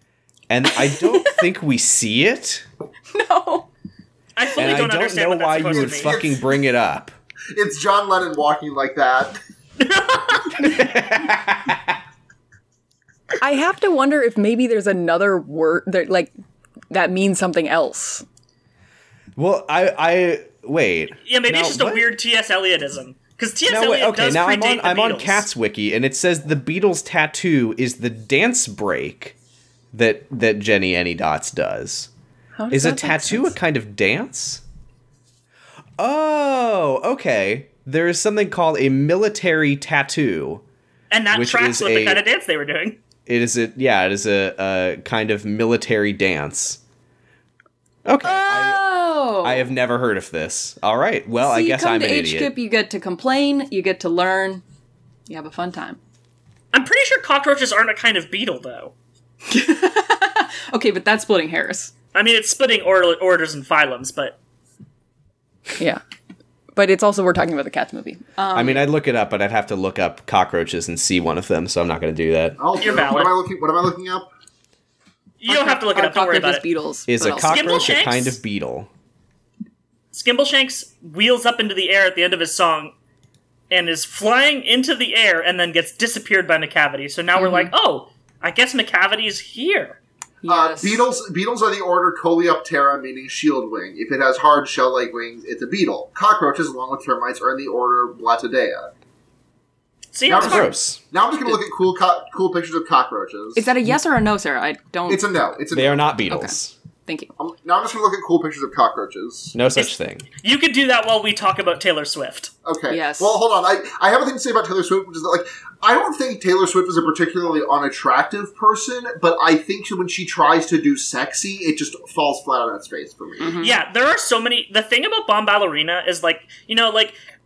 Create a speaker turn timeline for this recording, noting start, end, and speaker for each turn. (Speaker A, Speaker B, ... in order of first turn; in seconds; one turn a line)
Speaker A: 0.5-2.6
Speaker B: 1.0-1.4
Speaker B: 3.1-3.7
Speaker C: 4.3-6.2
Speaker A: 4.5-7.1
Speaker D: 5.7-6.5
Speaker D: 7.5-9.4
Speaker C: 9.8-10.5
Speaker A: 10.6-11.9
Speaker B: 13.4-16.3
Speaker B: 16.9-18.2
Speaker A: 19.4-22.1
Speaker C: 21.2-25.4
Speaker A: 23.7-29.3
Speaker A: 29.9-32.1
Speaker B: 32.5-33.5
Speaker A: 32.7-34.6
Speaker A: 36.0-40.6
Speaker C: 41.1-43.0
Speaker A: 41.3-42.2
Speaker A: 43.2-46.8
Speaker A: 48.0-48.8
Speaker B: 48.2-49.6
Speaker A: 49.4-52.5
Speaker B: 51.4-54.6
Speaker B: 55.3-56.0
Speaker C: 56.7-58.9
Speaker B: 59.5-61.9
Speaker C: 62.1-64.4
Speaker B: 66.8-68.9
Speaker A: 68.5-72.6
Speaker D: 72.6-74.3
Speaker C: 72.8-73.3
Speaker C: 75.4-76.6
Speaker B: 75.5-77.8
Speaker A: 77.1-78.9
Speaker C: 77.4-78.4
Speaker C: 80.1-82.9
Speaker C: 83.7-90.0
Speaker B: 87.3-87.7
Speaker B: 90.4-91.0
Speaker D: 90.5-98.9
Speaker C: 100.1-100.7
Speaker D: 100.2-103.7
Speaker A: 100.4-101.0
Speaker B: 103.5-105.2
Speaker D: 105.1-106.1
Speaker A: 105.7-106.7
Speaker B: 106.3-107.3
Speaker D: 107.4-109.5
Speaker A: 109.5-110.2
Speaker C: 110.4-112.5
Speaker D: 112.6-123.6
Speaker B: 112.9-113.4
Speaker B: 123.4-123.8
Speaker C: 123.6-127.1